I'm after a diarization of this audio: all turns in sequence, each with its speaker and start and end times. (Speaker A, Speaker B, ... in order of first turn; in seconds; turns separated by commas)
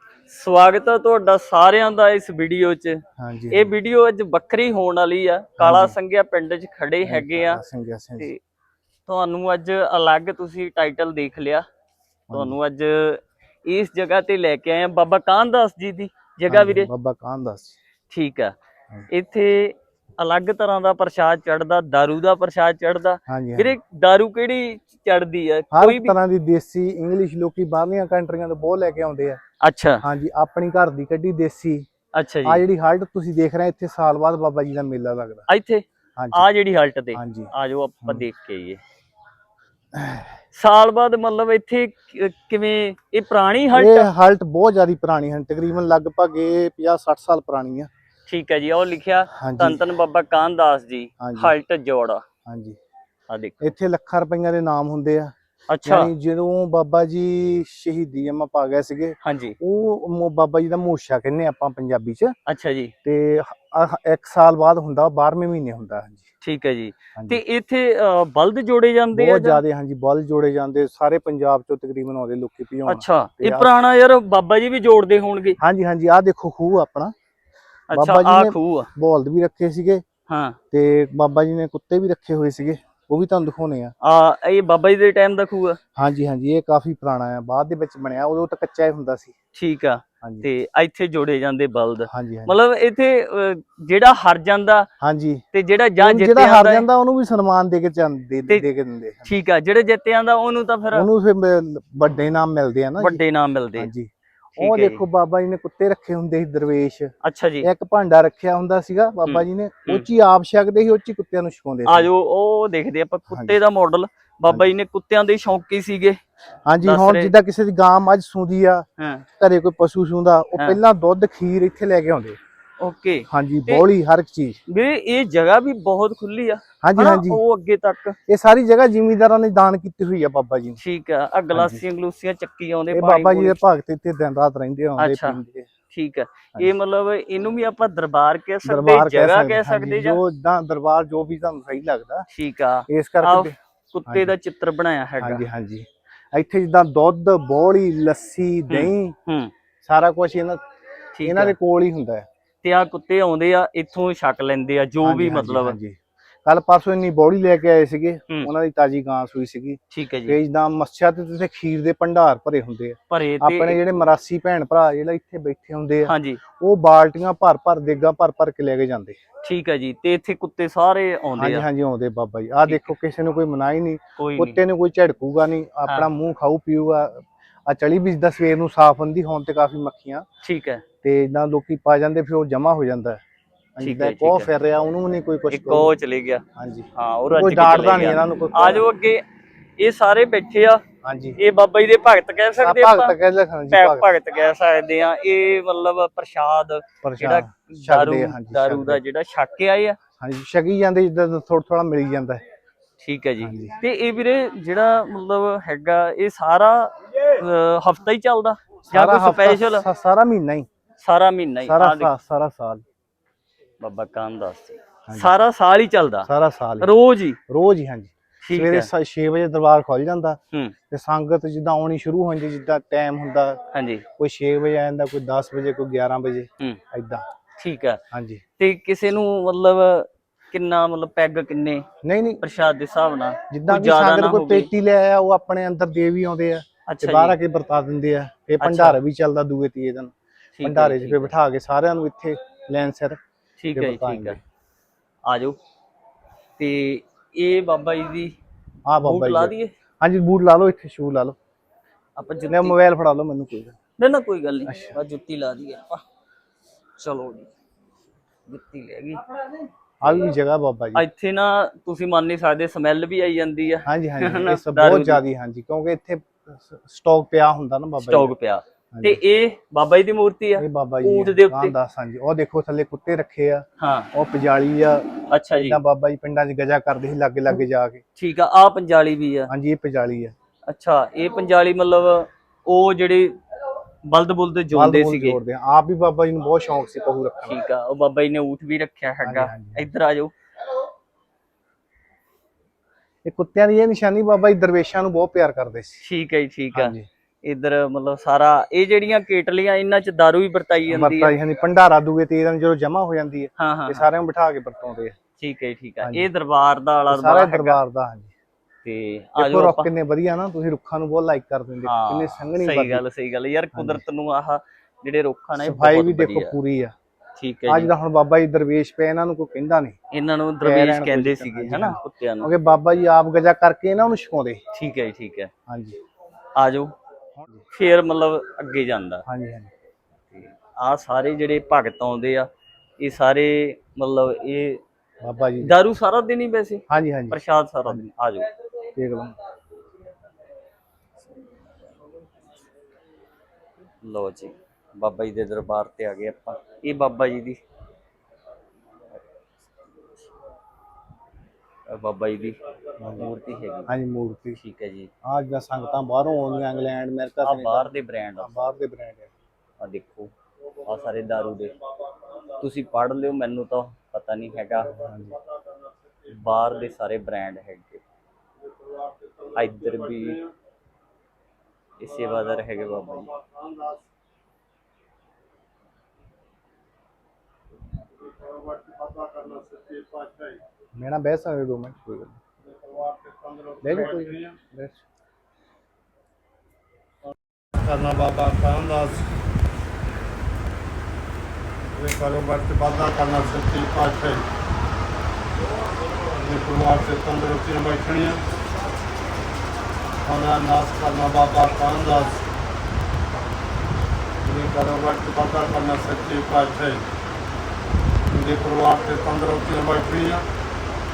Speaker A: 0.3-3.0, Speaker B: 3.2-3.7, Speaker A: 3.5-7.6, Speaker B: 5.6-6.0, Speaker B: 7.0-8.3, Speaker A: 9.1-11.6, Speaker B: 12.3-12.6, Speaker A: 12.3-16.9, Speaker B: 16.5-17.8, Speaker A: 18.1-18.5, Speaker A: 19.1-26.1, Speaker B: 23.3-23.8, Speaker B: 25.7-29.4, Speaker A: 29.6-30.0, Speaker B: 30.0-31.9, Speaker A: 32.1-32.6, Speaker B: 32.4-35.5, Speaker A: 35.5-38.8, Speaker B: 36.2-36.5, Speaker B: 37.1-37.5, Speaker B: 39.9-40.4, Speaker A: 40.5-44.1, Speaker B: 43.7-47.9, Speaker A: 48.3-52.2, Speaker B: 49.3-49.8, Speaker B: 51.2-51.5, Speaker B: 52.5-52.8, Speaker A: 53.3-53.7, Speaker B: 53.6-55.3, Speaker A: 55.7-56.1, Speaker B: 55.8-62.3, Speaker A: 59.2-59.5, Speaker A: 62.5-62.9, Speaker B: 63.0-66.3, Speaker A: 66.4-69.6, Speaker B: 67.2-67.4, Speaker B: 69.1-73.7, Speaker A: 72.9-75.6, Speaker B: 75.6-77.1, Speaker A: 77.9-78.9, Speaker B: 77.9-80.0, Speaker A: 80.3-80.6, Speaker B: 80.7-83.9, Speaker A: 84.0-85.8, Speaker B: 86.0-89.3, Speaker A: 89.5-94.9, Speaker B: 90.2-90.5, Speaker B: 92.1-92.5, Speaker B: 95.0-95.4, Speaker A: 95.5-96.8, Speaker B: 96.0-99.3, Speaker A: 99.2-101.0, Speaker B: 100.9-103.2, Speaker A: 103.0-103.9, Speaker B: 103.8-112.1, Speaker A: 104.6-105.0, Speaker A: 107.2-107.7, Speaker A: 109.2-110.0, Speaker A: 111.9-116.2, Speaker B: 113.3-113.6, Speaker B: 116.7-118.8, Speaker A: 116.8-117.3, Speaker A: 119.0-119.2, Speaker B: 119.4-122.4, Speaker A: 122.8-123.8, Speaker B: 123.3-124.6, Speaker A: 124.7-128.2, Speaker B: 126.8-127.4, Speaker B: 128.3-130.8, Speaker A: 130.8-133.6, Speaker B: 131.5-131.8, Speaker B: 132.9-135.7, Speaker A: 135.0-140.2, Speaker B: 138.6-142.2, Speaker A: 142.3-145.4, Speaker B: 142.9-143.5, Speaker B: 144.1-144.3, Speaker B: 145.2-149.2, Speaker A: 148.7-149.5, Speaker B: 149.8-150.6, Speaker A: 151.1-151.5, Speaker B: 151.2-152.2, Speaker A: 152.6-155.8, Speaker B: 155.0-169.2, Speaker A: 159.9-160.4, Speaker A: 163.1-163.9, Speaker A: 166.1-166.4, Speaker A: 169.4-171.6, Speaker B: 171.3-180.2, Speaker A: 172.7-172.9, Speaker A: 174.2-174.6, Speaker A: 180.4-180.8, Speaker B: 181.0-183.2, Speaker B: 183.8-185.9, Speaker A: 183.8-184.5, Speaker A: 185.5-186.4, Speaker B: 186.6-188.9, Speaker A: 186.9-189.2, Speaker A: 189.8-190.8, Speaker B: 191.0-191.4, Speaker A: 191.4-193.1, Speaker B: 192.6-194.1, Speaker A: 193.7-200.0, Speaker B: 197.0-199.0, Speaker B: 200.2-202.4, Speaker A: 203.0-209.8, Speaker B: 203.4-203.8, Speaker B: 208.9-210.7, Speaker A: 211.0-212.1, Speaker B: 211.7-212.8, Speaker A: 213.8-216.3, Speaker B: 216.2-216.9, Speaker A: 216.8-217.4, Speaker B: 217.5-220.4, Speaker A: 218.4-218.9, Speaker B: 220.9-223.6, Speaker A: 223.7-224.0, Speaker B: 224.2-227.2, Speaker A: 227.6-228.0, Speaker B: 228.1-228.4, Speaker A: 228.6-231.8, Speaker B: 232.0-232.4, Speaker A: 232.4-234.7, Speaker B: 233.5-243.2, Speaker A: 236.9-237.4, Speaker A: 238.6-239.0, Speaker A: 240.6-241.3, Speaker A: 243.6-244.4, Speaker B: 243.7-244.4, Speaker A: 245.2-245.6, Speaker A: 246.6-248.3, Speaker B: 248.9-251.3, Speaker A: 249.0-249.7, Speaker A: 252.2-252.8, Speaker B: 252.5-253.8, Speaker A: 254.0-256.0, Speaker B: 254.7-255.0, Speaker A: 257.0-257.5, Speaker A: 258.5-259.2, Speaker B: 260.0-261.0, Speaker A: 260.0-260.3, Speaker A: 260.9-265.2, Speaker B: 263.8-268.3, Speaker A: 268.0-271.7, Speaker B: 268.9-269.2, Speaker B: 270.6-278.0, Speaker A: 273.8-274.1, Speaker A: 275.3-275.8, Speaker A: 278.2-279.5, Speaker B: 279.5-280.3, Speaker A: 280.7-283.3, Speaker A: 284.1-285.4, Speaker B: 284.7-287.6, Speaker A: 287.4-290.3, Speaker B: 289.2-289.9, Speaker B: 293.2-296.0, Speaker A: 296.0-301.3, Speaker B: 296.7-297.1, Speaker B: 300.9-305.1, Speaker A: 303.6-304.1, Speaker A: 305.4-307.8, Speaker B: 306.0-306.3, Speaker B: 307.1-308.3, Speaker A: 308.8-309.9, Speaker B: 309.4-313.0, Speaker A: 311.8-316.5, Speaker B: 313.7-314.0, Speaker B: 315.6-316.9, Speaker A: 317.4-317.9, Speaker B: 317.7-319.9, Speaker A: 320.1-322.5, Speaker B: 320.6-324.6, Speaker A: 324.7-325.5, Speaker B: 325.7-326.0, Speaker A: 326.6-326.9, Speaker B: 327.4-327.6, Speaker A: 327.7-329.2, Speaker B: 329.2-329.7, Speaker A: 330.3-332.5, Speaker A: 333.0-334.8, Speaker B: 335.2-335.8, Speaker A: 335.6-338.5, Speaker B: 336.9-338.0, Speaker B: 338.9-339.3, Speaker A: 344.0-347.6, Speaker A: 351.9-352.6, Speaker B: 353.0-353.3, Speaker A: 353.1-353.9, Speaker B: 353.9-354.6, Speaker A: 354.6-355.1, Speaker B: 355.2-359.3, Speaker A: 357.4-358.5, Speaker A: 359.8-360.3, Speaker A: 360.8-361.8, Speaker A: 362.4-365.0, Speaker B: 364.8-365.4, Speaker A: 366.3-368.0, Speaker C: 368.9-369.5, Speaker A: 369.5-370.4, Speaker A: 372.0-373.3, Speaker C: 373.4-374.0, Speaker C: 378.2-380.6, Speaker B: 380.9-382.4, Speaker C: 382.7-384.4, Speaker B: 383.8-385.0, Speaker C: 387.7-389.3, Speaker C: 391.9-394.4, Speaker C: 396.3-398.4, Speaker C: 400.2-402.4, Speaker C: 404.4-407.0, Speaker C: 408.3-410.4